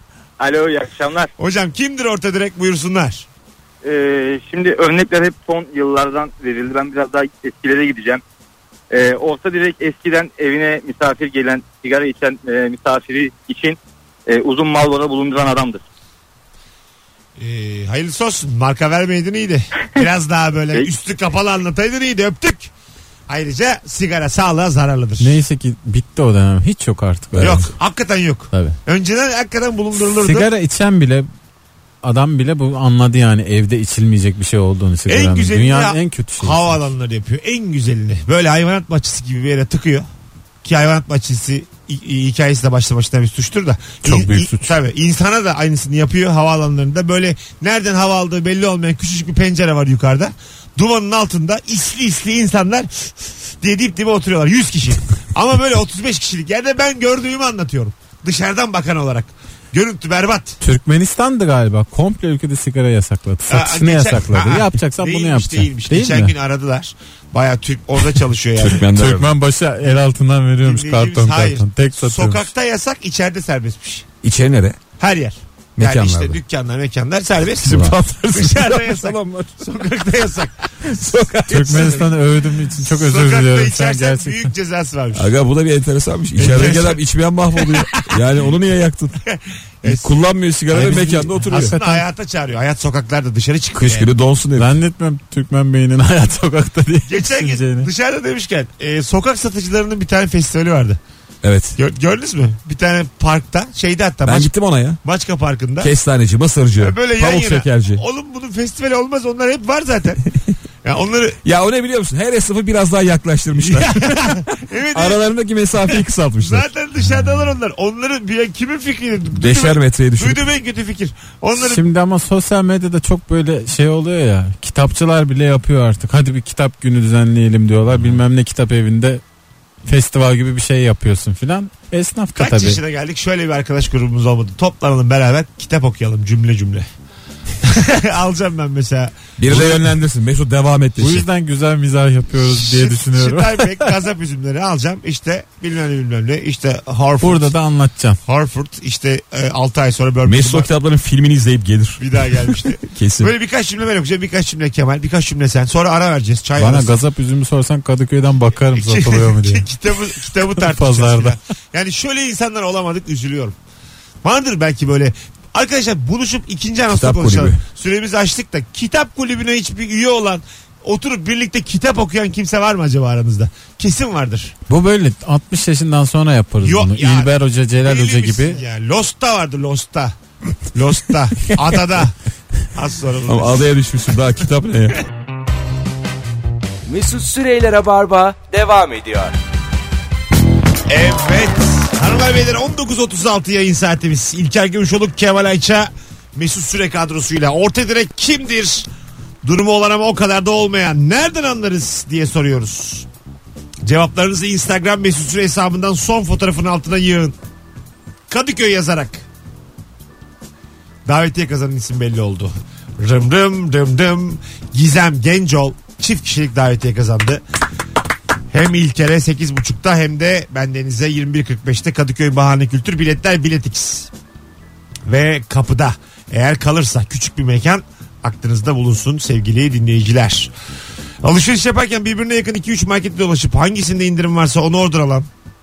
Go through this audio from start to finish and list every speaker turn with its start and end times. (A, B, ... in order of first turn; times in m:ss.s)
0:00.4-0:01.3 A
0:01.4-0:03.3 B
0:03.8-0:08.2 A
0:08.9-0:15.8 A
0:17.4-0:22.7 B
0:23.3-0:25.4 B
0:25.2-0:27.7 C
0:27.4-0:27.6 D
0:27.4-0:30.5 B
0:28.5-0:28.8 C
0:30.2-0:31.3 C
0:32.0-0:36.8 C
0:35.1-0:40.0 B
0:40.6-1:00.6 B
0:44.0-0:44.8 C
1:00.6-1:06.3 C
1:03.5-1:08.8 B
1:08.6-1:09.3 D
1:08.8-1:12.5 C
1:10.6-1:14.1 B
1:14.2-1:14.8 D
1:15.0-1:20.9 B
1:15.8-1:16.4 D
1:17.6-1:19.6 D
1:17.6-1:18.0 C
1:20.8-1:22.0 D
1:21.5-1:24.5 C
1:21.5-1:22.0 B
1:22.8-1:25.3 B
1:25.1-1:29.2 D
1:26.4-1:27.0 B
1:27.6-1:28.1 B
1:29.2-1:30.1 B
1:29.8-1:31.7 D
1:30.7-1:32.0 C
1:31.4-1:34.1 B
1:33.8-1:34.7 D
1:34.6-1:37.9 C
1:37.1-1:41.0 B
1:41.4-1:41.7 D
1:41.8-1:44.5 B
1:44.2-1:45.0 D
1:45.0-1:45.9 B
1:45.8-1:48.0 D
1:46.8-1:50.2 B
1:50.8-1:51.4 B
1:51.4-1:56.7 D
1:53.6-1:55.2 B
1:55.9-2:01.8 B
1:59.3-2:00.4 D
2:01.6-2:09.2 C
2:09.8-2:12.8 C
2:12.4-2:16.9 B
2:17.6-2:19.1 B
2:19.4-2:21.2 D
2:19.5-2:19.8 C
2:21.0-2:23.9 C
2:22.4-2:27.5 B
2:27.2-2:28.2 C
2:28.2-2:30.7 B
2:30.2-2:33.3 D
2:32.0-2:37.0 B
2:36.6-2:39.7 C
2:38.7-2:43.6 B
2:40.5-2:41.4 C
2:44.2-2:54.5 B
2:46.9-2:47.6 D
2:54.7-2:58.6 C
2:56.6-3:00.1 B
3:00.7-3:02.1 B
3:02.7-3:03.7 B
3:03.3-3:05.0 D
3:06.8-3:09.3 E
3:10.9-3:18.9 B
3:19.4-3:23.1 B
3:23.8-3:27.3 B
3:28.3-3:29.2 B
3:31.0-3:37.4 B
3:38.5-3:44.1 B
3:45.1-3:50.5 B
3:51.2-3:55.3 B